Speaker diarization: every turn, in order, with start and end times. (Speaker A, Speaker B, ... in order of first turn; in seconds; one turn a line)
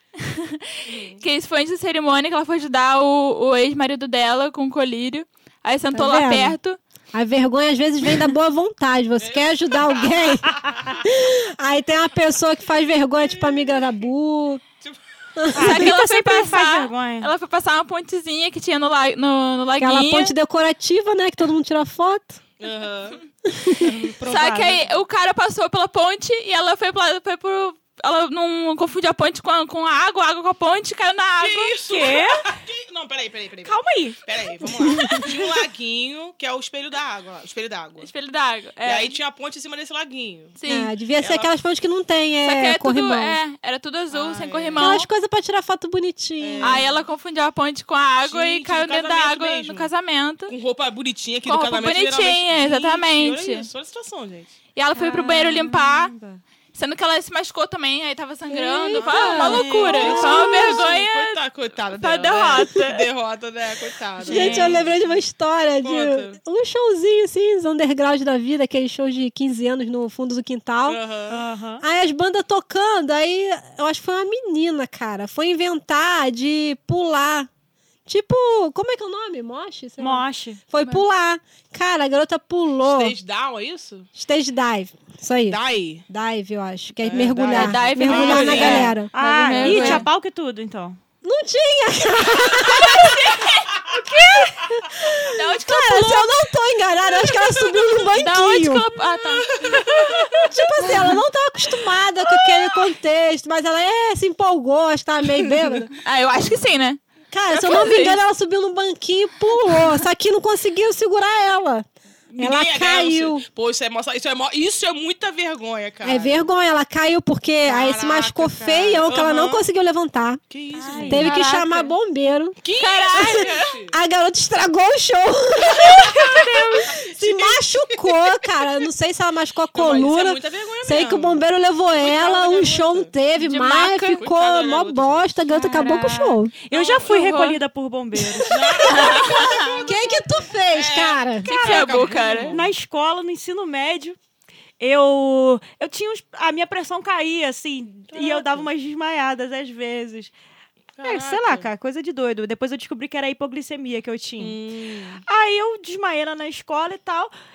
Speaker A: 0.2-6.8
Speaker B: 0.9-1.2
Speaker C: 5.9-6.5
Speaker C: 7.1-14.6
Speaker B: 9.2-11.0
Speaker B: 13.2-13.8
Speaker C: 15.4-15.9
Speaker D: 15.5-17.3
Speaker A: 15.6-20.3
Speaker C: 19.8-22.4
Speaker B: 22.6-23.2
Speaker C: 23.5-23.9
Speaker D: 23.8-24.8
Speaker A: 24.2-31.8
Speaker B: 31.4-38.1
Speaker D: 31.9-32.5
Speaker D: 33.6-34.2
Speaker C: 34.9-35.2
Speaker A: 38.0-39.1
Speaker B: 38.8-40.5
Speaker A: 40.6-40.9
Speaker C: 40.7-43.4
Speaker B: 41.2-41.5
Speaker A: 42.4-45.1
Speaker B: 44.1-45.0
Speaker C: 44.8-46.8
Speaker B: 46.4-47.0
Speaker A: 46.6-50.5
Speaker B: 48.3-49.9
Speaker B: 50.5-54.5
Speaker A: 51.5-53.7
Speaker A: 54.7-56.1
Speaker D: 54.9-56.4
Speaker A: 56.7-61.4
Speaker C: 58.5-60.9
Speaker B: 58.9-65.2
Speaker D: 59.4-60.1
Speaker A: 62.0-63.1
Speaker C: 64.2-71.0
Speaker A: 64.3-64.8
Speaker D: 64.3-64.8
Speaker B: 65.8-66.4
Speaker B: 70.8-71.4
Speaker D: 71.3-71.8
Speaker C: 71.8-77.5
Speaker C: 78.0-83.1
Speaker D: 80.0-80.6
Speaker B: 82.8-84.1
Speaker C: 84.1-90.0
Speaker B: 85.5-86.0
Speaker B: 87.0-88.9
Speaker A: 87.5-90.0
Speaker D: 88.4-91.0
Speaker C: 91.2-93.3
Speaker B: 92.9-94.1
Speaker A: 93.0-93.5
Speaker D: 93.9-94.6
Speaker C: 94.7-98.8
Speaker A: 95.2-96.4
Speaker A: 97.6-99.6
Speaker B: 99.6-100.5
Speaker C: 100.4-105.9
Speaker A: 100.8-101.2
Speaker B: 102.4-102.7
Speaker A: 106.0-107.0
Speaker C: 107.3-113.4
Speaker A: 107.6-108.2
Speaker B: 112.3-116.5
Speaker C: 116.0-120.4
Speaker B: 117.6-119.6
Speaker B: 120.5-121.3
Speaker D: 120.8-121.3
Speaker A: 121.0-121.9
Speaker C: 121.1-122.6
Speaker B: 122.6-123.9
Speaker A: 122.8-123.8
Speaker C: 123.1-136.5
Speaker B: 125.7-128.3
Speaker D: 126.2-126.9
Speaker B: 129.7-131.4
Speaker B: 131.9-133.1
Speaker A: 133.4-134.3
Speaker B: 134.2-135.3
Speaker A: 135.5-136.3
Speaker D: 135.7-136.1
Speaker D: 136.6-139.0
Speaker B: 136.7-137.2
Speaker A: 137.1-137.6
Speaker B: 138.4-140.2
Speaker A: 138.8-139.8
Speaker C: 139.7-141.5
Speaker B: 140.7-142.7
Speaker A: 141.4-142.6
Speaker D: 141.6-144.2
Speaker D: 144.8-150.3
Speaker B: 148.1-148.7
Speaker B: 150.9-151.7
Speaker D: 151.0-154.6
Speaker B: 154.4-155.2
Speaker D: 155.2-157.3